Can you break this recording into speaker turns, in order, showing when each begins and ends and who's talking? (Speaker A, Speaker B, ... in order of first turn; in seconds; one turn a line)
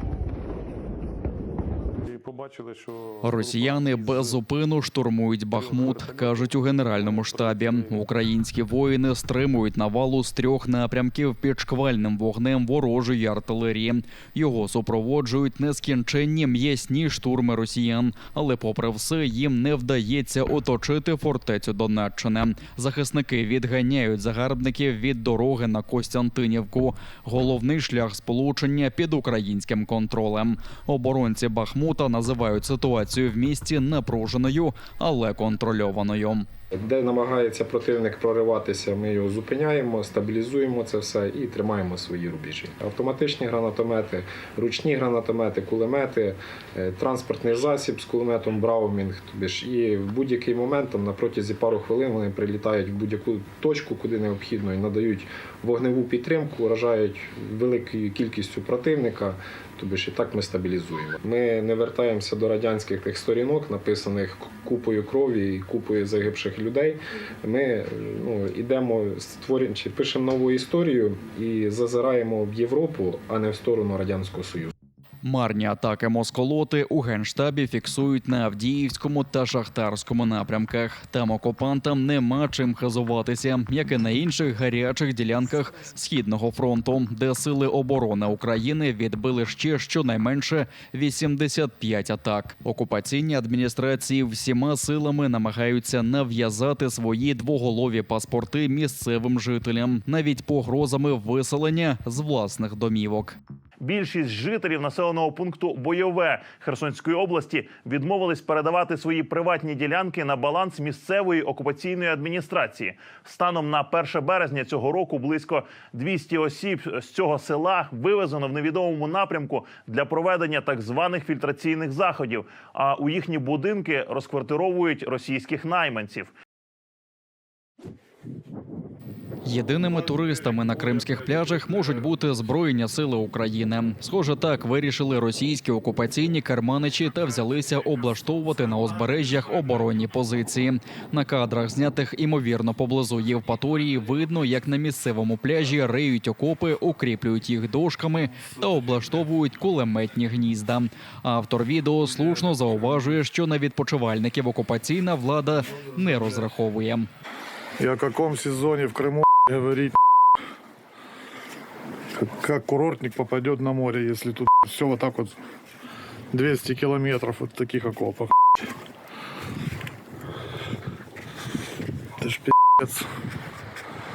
Speaker A: 2.0-4.3
Speaker B: 3.2-36.5
Speaker A: 5.6-6.5
Speaker A: 7.1-8.0
Speaker C: 36.8-74.7
Speaker B: 75.2-103.3
Speaker D: 103.8-126.3
Speaker B: 129.4-157.1
Speaker A: 157.8-160.0
Speaker A: 162.1-165.4
Speaker A: 166.3-168.7
Speaker A: 172.2-173.1